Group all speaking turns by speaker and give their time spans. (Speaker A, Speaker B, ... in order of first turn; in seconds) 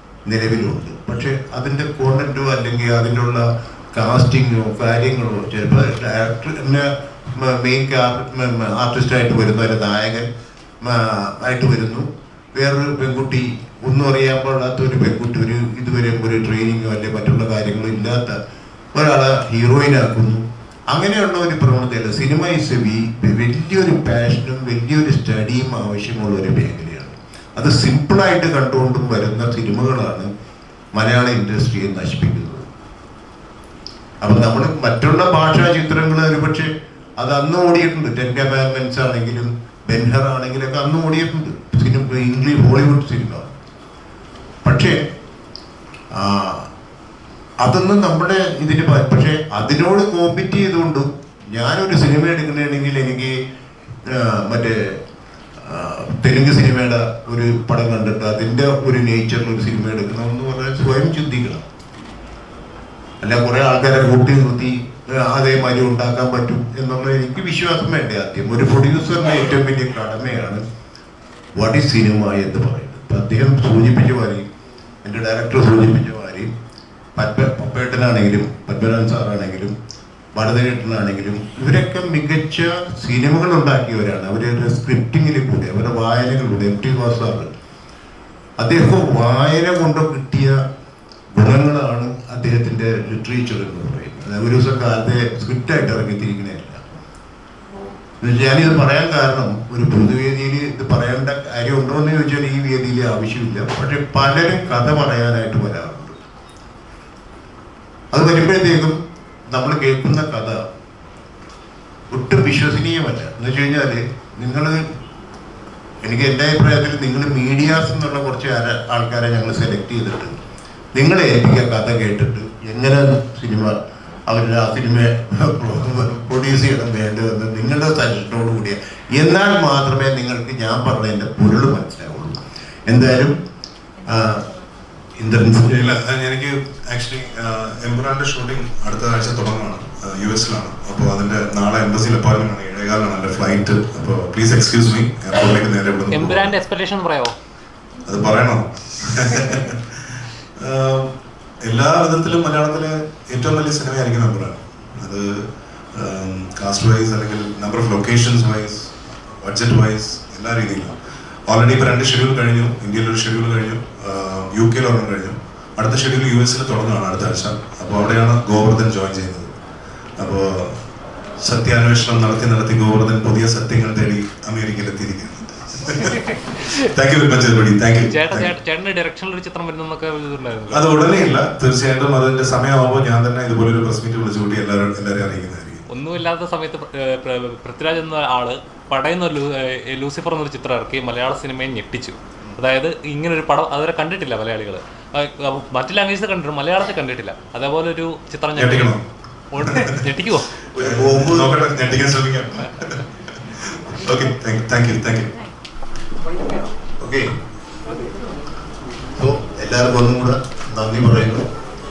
Speaker A: 0.2-10.3, 10.8-18.4, 18.9-30.3, 30.9-32.7, 34.2-43.5, 44.6-45.0, 46.1-46.7, 47.6-53.4, 54.0-55.0, 55.6-61.6, 63.2-70.6, 71.5-74.5, 75.0-76.5, 77.1-79.7, 80.3-87.5, 88.6-90.6, 91.3-96.9, 98.2-106.2, 108.1-109.0, 109.5-110.6, 112.1-114.9, 116.0-120.4, 120.9-133.3, 134.0-134.4, 135.2-135.8, 200.8-201.6, 207.0-207.3, 209.2-211.5
Speaker B: 135.7-146.5, 148.0-151.1, 151.6-158.9, 159.4-160.9, 161.5-169.5, 170.2-170.8, 171.4-178.5, 180.7-185.8, 198.6-199.0, 199.7-200.0, 200.7-205.3
Speaker C: 146.1-147.3, 175.9-176.7, 178.1-180.8, 185.9-198.9, 199.5-200.5